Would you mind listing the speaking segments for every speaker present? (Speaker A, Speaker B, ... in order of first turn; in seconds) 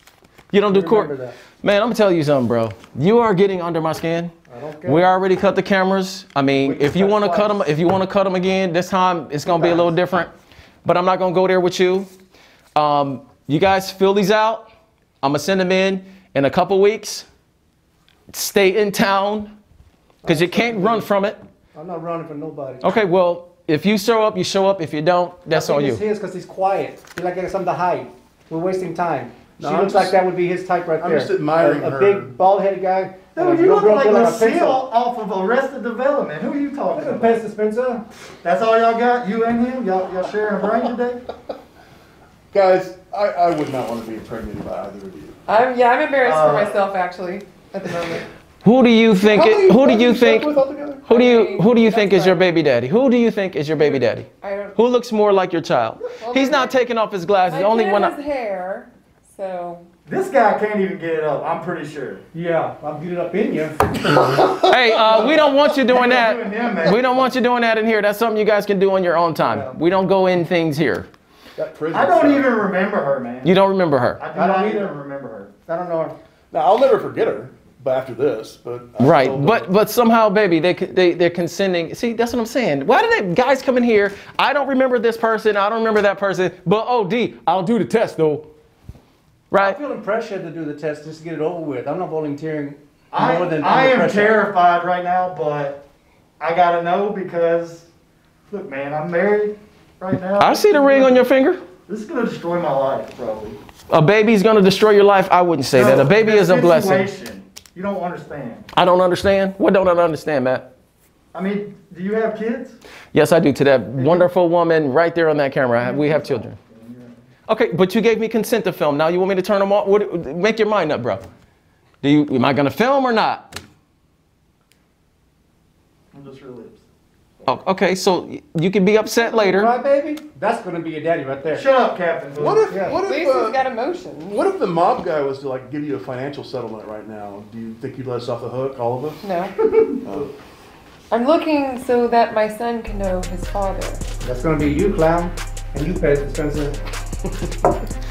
Speaker A: 0.5-4.3, 4.8-10.3, 10.8-12.1, 12.8-14.7, 15.2-17.3, 18.3-19.5, 20.3-21.4, 22.8-26.0, 48.6-50.5, 51.1-58.1, 64.5-71.1, 73.4-74.2, 79.0-88.5, 89.5-89.8, 100.4-101.6, 103.9-107.1, 108.7-110.7, 113.1-116.6, 117.5-121.2, 122.0-123.5, 127.5-129.7
Speaker B: 0.7-1.4, 4.5-5.1, 6.6-7.6, 9.4-9.9, 20.2-21.1, 21.8-22.8, 25.5-34.9, 36.9-38.1, 62.3-63.9, 69.4-69.7, 74.3-75.0, 75.7-76.2, 89.6-94.5, 129.2-131.7, 132.7-133.1, 144.2-146.8
Speaker C: 29.6-30.1, 31.0-32.4, 42.5-45.4, 71.6-72.6, 76.5-79.7, 132.4-133.6, 134.3-139.2, 140.1-140.3
Speaker D: 33.3-37.4, 38.4-41.2, 46.2-46.8, 60.1-62.2, 65.1-67.1, 71.9-73.5, 74.2-75.5, 93.1-95.8, 96.4-97.9, 98.5-101.3, 101.9-103.6, 105.7-108.7, 111.3-112.8, 114.0-114.3, 115.8-117.2, 126.1-126.8, 131.5-133.0
Speaker E: 45.5-48.3, 49.3-52.4, 53.8-54.8, 56.2-56.8, 57.5-59.9, 133.0-134.4, 139.2-139.6, 141.1-144.0